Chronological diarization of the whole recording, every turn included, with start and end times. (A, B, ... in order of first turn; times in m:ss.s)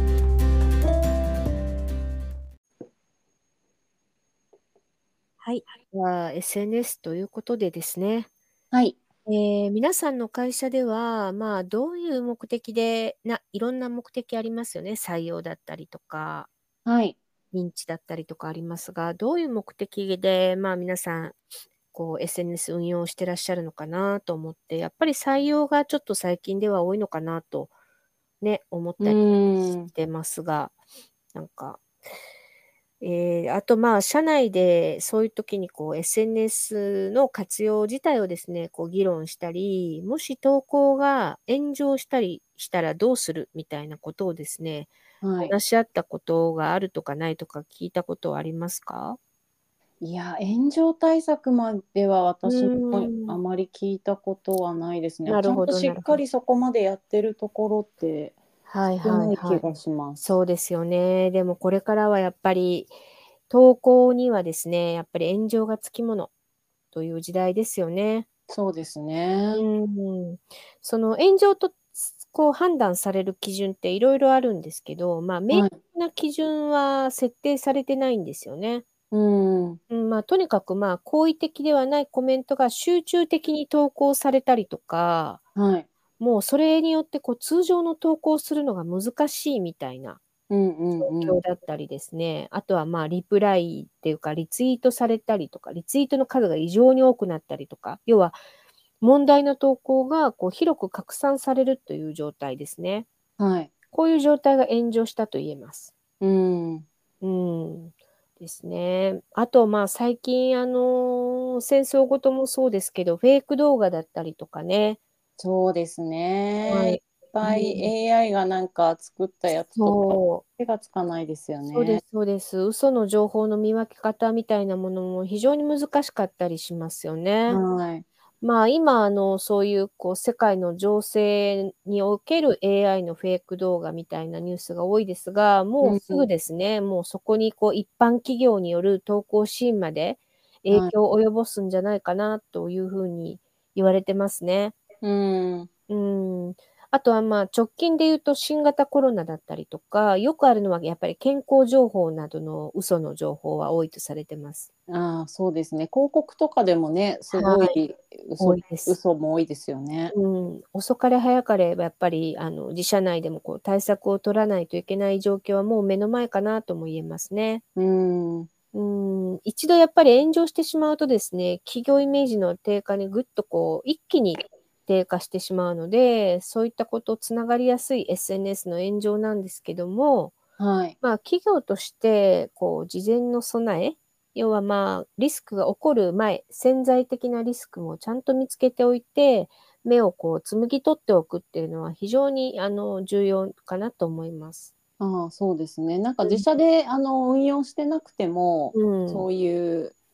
0:05.4-0:08.3 A
0:08.7-0:09.0 B
0:09.3-0:16.5 A
0:16.9-0:17.2 B
0:17.5-0:21.4 A
0:21.9-0:27.7 A
0:28.4-0:30.8 A
0:29.0-0:29.9 B
0:31.4-0:31.8 A
0:33.0-0:44.9 A
0:45.2-0:45.5 B
0:45.4-0:49.2 A
0:50.0-0:58.4 B
0:52.4-0:53.4 A
0:55.2-0:56.2 A
0:58.7-0:59.6 A
0:59.0-1:00.4 B
1:00.2-1:03.0 A
1:03.5-1:06.3 A
1:06.9-1:08.3 A
1:08.5-1:09.7 B
1:09.5-1:18.8 A
1:15.5-1:15.8 B
1:19.1-1:19.8 B
1:19.9-1:25.4 A
1:25.6-1:25.9 B
1:26.2-1:30.2 A
1:30.5-1:31.4 B
1:31.0-1:38.4 A
1:39.0-1:43.1 A
1:43.4-1:43.7 B
1:43.9-1:45.9 A
1:46.2-1:46.9 B
1:47.2-1:55.0 A
1:55.4-2:02.0 B
1:56.7-1:57.9 A
1:59.8-2:00.4 A
2:01.7-2:07.6 A
2:07.5-2:08.0 B
2:08.4-2:24.8 A
2:15.8-2:16.3 B
2:25.0-2:25.7 B
2:25.9-2:34.7 A
2:34.9-2:40.2 B
2:37.3-2:37.8 A
2:38.4-2:39.0 A
2:40.1-2:47.6 A
2:47.8-2:48.5 B
2:48.7-3:00.3 A
3:00.6-3:01.0 B
3:01.0-3:14.7 A
3:15.0-3:20.0 B
3:18.7-3:19.3 A